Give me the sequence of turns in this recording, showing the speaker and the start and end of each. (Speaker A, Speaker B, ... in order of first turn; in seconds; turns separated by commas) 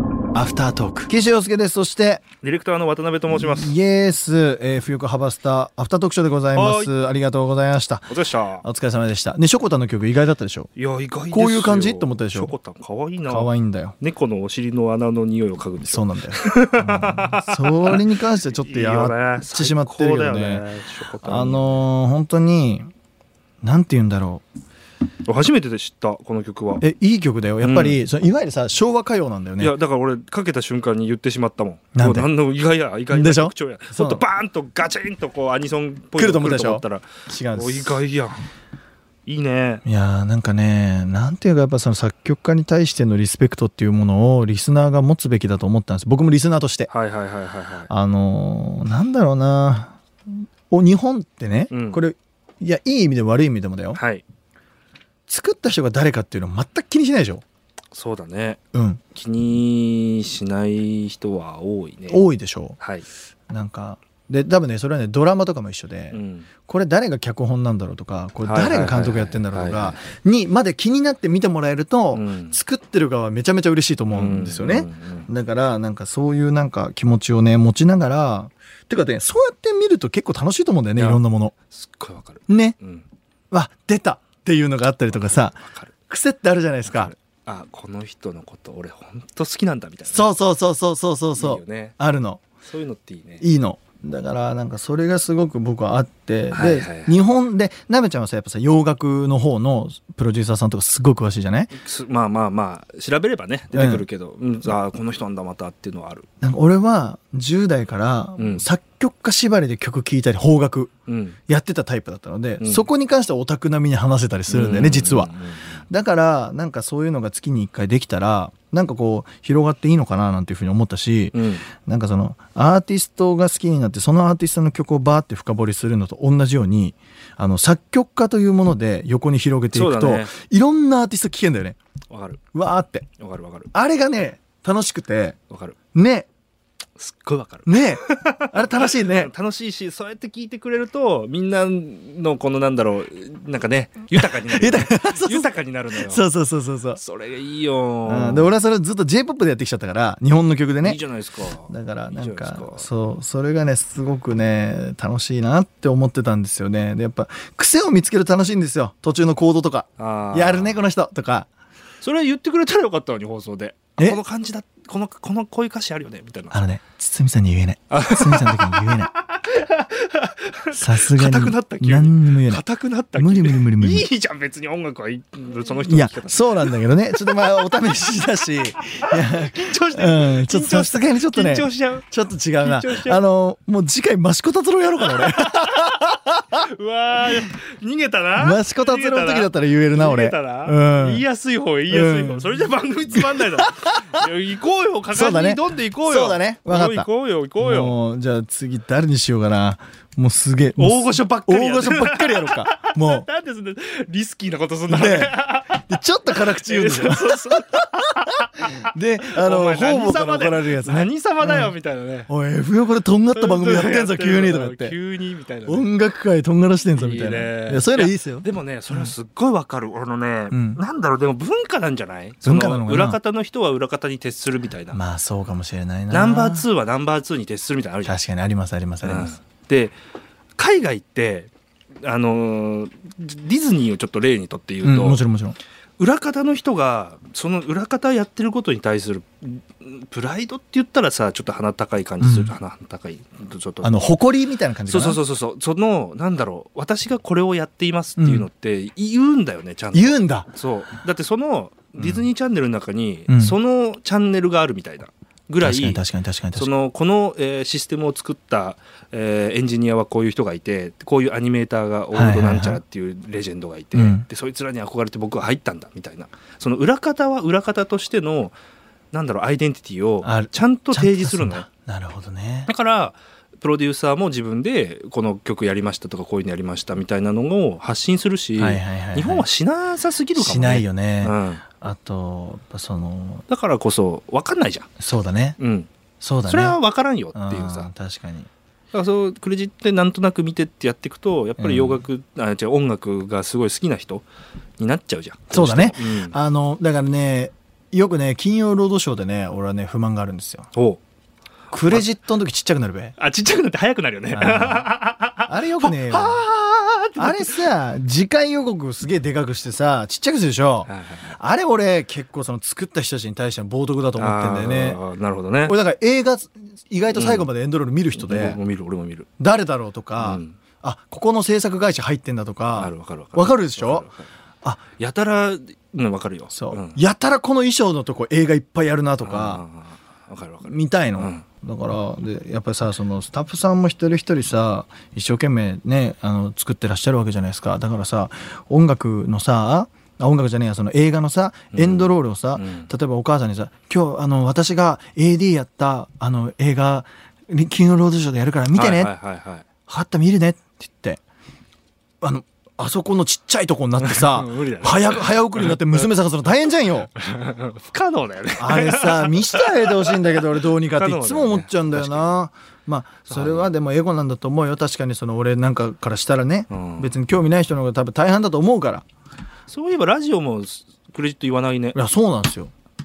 Speaker A: 0.3-2.2, Speaker B: 2.4-3.8, Speaker A: 3.3-10.7, Speaker B: 6.5-6.9, Speaker B: 8.1-8.7, Speaker B: 10.8-21.9, Speaker A: 11.3-12.6, Speaker A: 13.3-14.0, Speaker A: 15.8-20.7, Speaker A: 21.2-22.9, Speaker A: 23.6-24.4, Speaker B: 25.2-26.8, Speaker A: 26.8-29.8, Speaker B: 27.6-28.0, Speaker B: 29.6-38.4, Speaker A: 31.9-32.3, Speaker A: 33.1-34.2, Speaker A: 36.2-38.0, Speaker B: 39.3-39.8, Speaker A: 39.9-46.9, Speaker B: 46.9-47.9, Speaker A: 47.9-50.0, Speaker A: 50.7-54.0, Speaker B: 51.7-52.0, Speaker B: 53.9-54.2, Speaker A: 55.3-57.4, Speaker B: 57.9-58.6, Speaker A: 58.7-59.0, Speaker B: 59.1-62.2, Speaker A: 62.1-62.8, Speaker B: 62.8-63.0, Speaker A: 63.5-81.5, Speaker B: 66.1-66.5, Speaker B: 68.4-70.0, Speaker B: 72.1-72.6, Speaker B: 74.1-75.3, Speaker B: 81.0-83.1, Speaker A: 82.5-82.8, Speaker A: 83.5-87.1, Speaker B: 85.1-85.9, Speaker B: 86.8-90.3, Speaker A: 90.1-92.4, Speaker B: 91.4-92.0, Speaker B: 92.6-93.5, Speaker A: 93.4-101.7, Speaker B: 96.5-97.2, Speaker B: 101.7-106.3, Speaker A: 103.7-104.1, Speaker A: 106.4-110.9, Speaker B: 108.4-108.7, Speaker B: 111.1-111.4, Speaker A: 111.5-115.3, Speaker B: 112.6-112.9, Speaker B: 114.5-115.8, Speaker A: 115.9-131.8, Speaker B: 121.3-121.7, Speaker B: 129.7-130.3, Speaker B: 132.1-132.4, Speaker A: 132.5-133.1, Speaker B: 133.2-133.7, Speaker A: 133.7-135.4, Speaker B: 135.5-135.8, Speaker A: 135.9-136.3, Speaker B: 137.0-146.2, Speaker A: 137.7-139.3, Speaker A: 144.1-147.0, Speaker B: 146.9-148.6, Speaker A: 148.1-151.0, Speaker B: 150.8-152.9, Speaker A: 151.7-161.5, Speaker B: 160.0-160.8, Speaker B: 162.0-166.6, Speaker A: 166.5-169.1, Speaker B: 167.9-177.6, Speaker A: 170.7-172.6, Speaker A: 173.2-174.1, Speaker A: 175.7-186.6, Speaker B: 178.8-183.2, Speaker B: 185.1-198.0, Speaker A: 188.3-191.2, Speaker A: 191.9-194.0, Speaker A: 195.1-203.3, Speaker B: 200.8-212.3, Speaker A: 204.9-207.8, Speaker A: 208.6-211.7, Speaker A: 212.3-215.0, Speaker B: 213.3-215.9, Speaker A: 215.7-219.1, Speaker B: 216.9-225.0, Speaker A: 220.5-220.8, Speaker A: 222.4-223.2, Speaker A: 224.9-226.7, Speaker B: 226.1-228.2, Speaker A: 228.0-229.4, Speaker B: 229.0-229.9, Speaker B: 230.6-235.2, Speaker A: 234.8-235.6, Speaker B: 236.0-244.2, Speaker A: 242.2-242.5, Speaker A: 243.8-245.2, Speaker B: 244.9-256.0, Speaker A: 248.2-248.5, Speaker A: 249.9-250.5, Speaker A: 252.0-252.3, Speaker A: 253.3-253.6, Speaker A: 255.6-256.7, Speaker B: 256.6-268.6, Speaker A: 262.1-262.8, Speaker A: 263.9-264.3, Speaker B: 269.1-271.7, Speaker A: 270.2-272.7, Speaker B: 272.7-281.6, Speaker A: 278.6-279.5, Speaker A: 280.4-283.4, Speaker B: 283.5-284.9, Speaker A: 285.0-285.6, Speaker B: 285.6-285.9, Speaker A: 286.2-286.8, Speaker B: 286.5-287.9, Speaker A: 287.3-288.5, Speaker B: 288.9-294.3, Speaker A: 291.6-292.0, Speaker B: 294.8-296.4, Speaker A: 295.5-300.7, Speaker B: 300.7-301.0, Speaker A: 301.7-303.2, Speaker B: 303.2-307.7, Speaker A: 304.3-304.9, Speaker A: 305.4-306.5, Speaker A: 307.2-315.0, Speaker B: 310.9-311.4, Speaker B: 314.2-315.8, Speaker A: 315.6-318.6, Speaker B: 317.1-317.5, Speaker B: 318.1-319.3, Speaker A: 319.4-324.1, Speaker B: 320.2-320.6, Speaker B: 322.7-324.3, Speaker B: 325.0-327.0, Speaker A: 326.5-329.6, Speaker B: 329.2-331.4, Speaker A: 330.6-349.1, Speaker B: 341.7-342.9, Speaker B: 348.7-349.7, Speaker A: 349.9-351.2, Speaker A: 352.2-357.1, Speaker B: 354.0-356.0, Speaker B: 357.2-362.3, Speaker A: 358.6-369.1, Speaker B: 363.3-363.7, Speaker B: 366.7-367.1, Speaker B: 369.7-372.0, Speaker A: 371.9-372.7